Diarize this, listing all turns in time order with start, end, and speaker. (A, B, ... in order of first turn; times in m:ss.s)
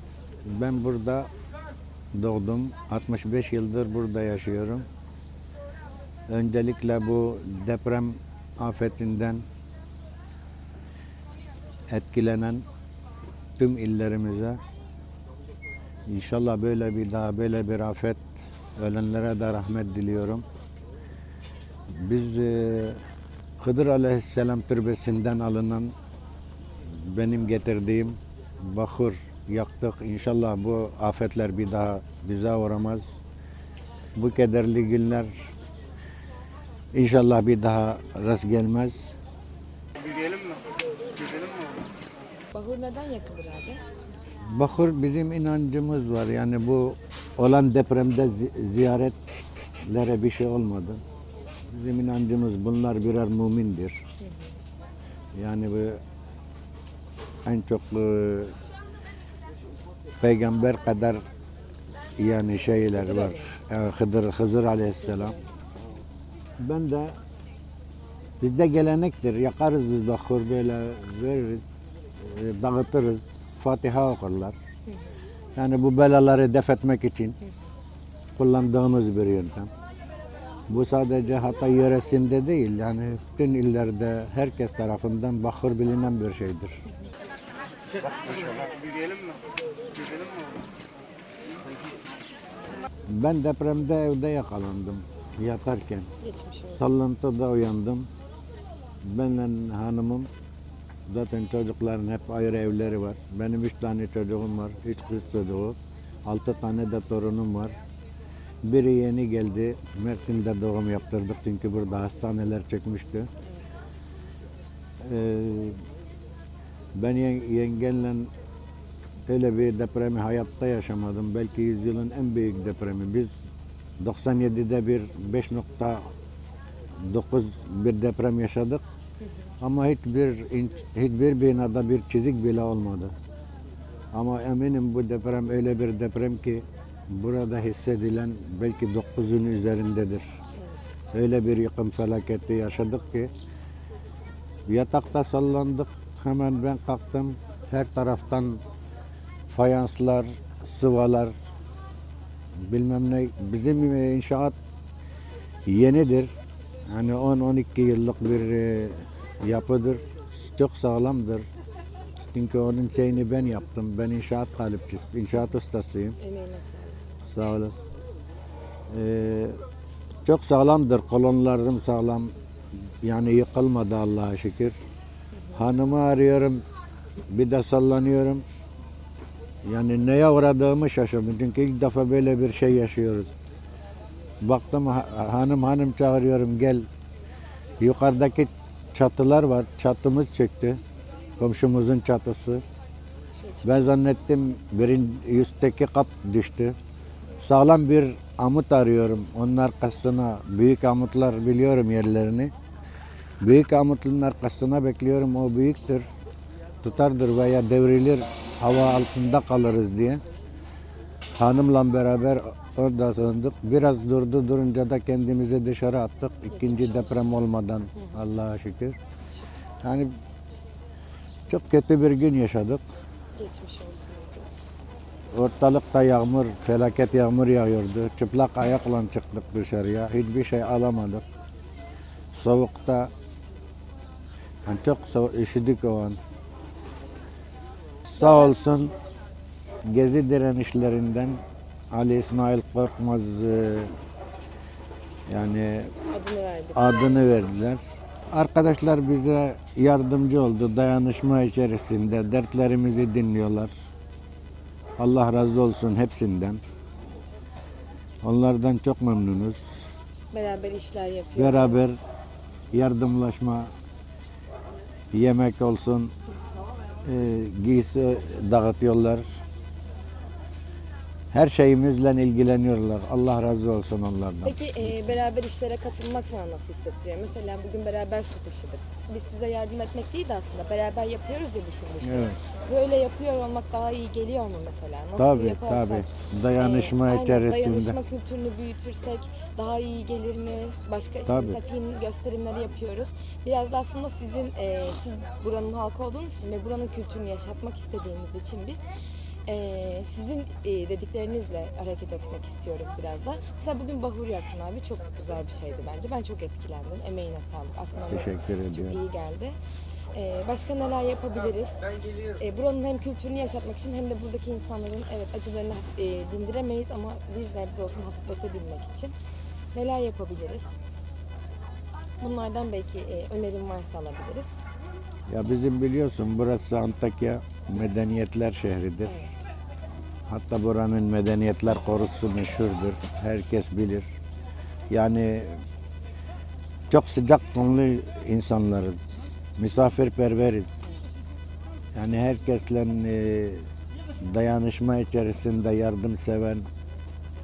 0:00.4-0:01.3 A
0:02.1-0:04.8 A
0:06.3-0:09.4 A
0:11.9-0:12.6 A
0:13.6-0:14.6 A
0:16.1-0:18.2 A
0:18.8-0:20.4 A
0:22.0-0:23.0 A
0:23.6-0:25.9 A
0:26.9-0:33.0 A
0:34.2-0:35.3 A
0:36.9-0:39.1 A
0:40.0-0:40.6 B
0:41.1-0:41.9 B
0:42.5-0:43.8 C
0:44.4-0:49.2 A
0:49.9-0:51.0 A
0:51.7-0:54.0 A
0:54.2-0:54.6 C
0:55.3-0:56.0 A
0:57.4-0:58.6 A
1:00.2-1:01.2 A
1:02.2-1:05.4 A
1:02.8-1:03.5 C
1:05.0-1:05.6 C
1:06.6-1:07.2 A
1:08.4-1:11.6 A
1:12.2-1:14.6 A
1:14.9-1:15.1 C
1:15.5-1:17.4 A
1:18.4-1:19.7 A
1:20.7-1:26.8 A
1:28.2-1:29.4 B
1:29.9-1:30.6 B
1:33.1-1:36.1 A
1:36.2-1:36.9 C
1:36.7-1:38.1 A
1:39.0-1:40.3 A
1:41.1-1:47.8 A
1:48.6-1:53.3 A
1:53.4-1:53.8 C
1:55.0-1:55.8 A
1:57.0-1:58.3 A
1:59.3-2:03.5 A
2:04.0-2:06.0 A
2:07.0-2:08.8 A
2:09.6-2:13.1 A
2:14.1-2:20.3 A
2:20.6-2:20.8 C
2:21.1-2:23.3 A
2:24.7-2:28.6 A
2:29.5-2:31.3 A
2:32.7-2:34.5 A
2:35.7-2:36.3 A
2:36.9-2:41.4 A
2:42.2-2:46.2 A
2:46.2-2:47.1 C
2:47.3-2:47.8 A
2:48.9-2:49.6 A
2:50.2-2:52.3 A
2:53.0-2:54.8 A
2:55.5-2:56.6 A
2:57.3-2:58.4 A
2:59.6-3:03.3 A
3:04.4-3:06.9 A
3:07.8-3:10.8 A
3:11.4-3:12.6 A
3:13.4-3:13.9 C
3:13.6-3:16.7 A
3:17.4-3:22.5 A
3:23.4-3:26.1 A
3:26.8-3:30.2 A
3:31.4-3:38.9 A
3:36.5-3:37.2 C
3:37.9-3:38.2 C
3:39.8-3:40.1 A
3:41.5-3:42.8 A
3:43.4-3:44.5 C
3:45.3-3:51.2 A
3:52.3-3:53.1 A
3:54.6-3:56.2 A
3:58.0-3:58.9 A
3:58.2-3:58.5 C
3:59.9-4:01.4 A
4:01.9-4:03.9 A
4:05.3-4:05.9 A
4:06.1-4:07.4 C
4:06.7-4:13.7 A
4:15.0-4:16.6 A
4:18.2-4:19.6 A
4:20.3-4:22.0 C
4:21.4-4:22.0 A
4:22.7-4:23.7 A
4:25.1-4:26.1 A
4:27.0-4:29.2 A
4:31.3-4:35.0 A
4:34.4-4:58.9 C
4:42.0-4:42.4 A
4:45.2-4:48.0 A
4:51.2-4:51.6 A
4:59.4-5:09.6 C
5:08.1-5:09.0 A
5:10.1-5:19.1 C
5:19.7-5:20.7 C
5:22.2-5:24.5 C
5:25.3-5:29.1 A
5:29.0-5:29.3 C
5:30.3-5:34.1 A
5:34.9-5:35.6 A
5:36.9-5:40.7 A
5:41.9-5:43.7 A
5:44.2-5:46.6 A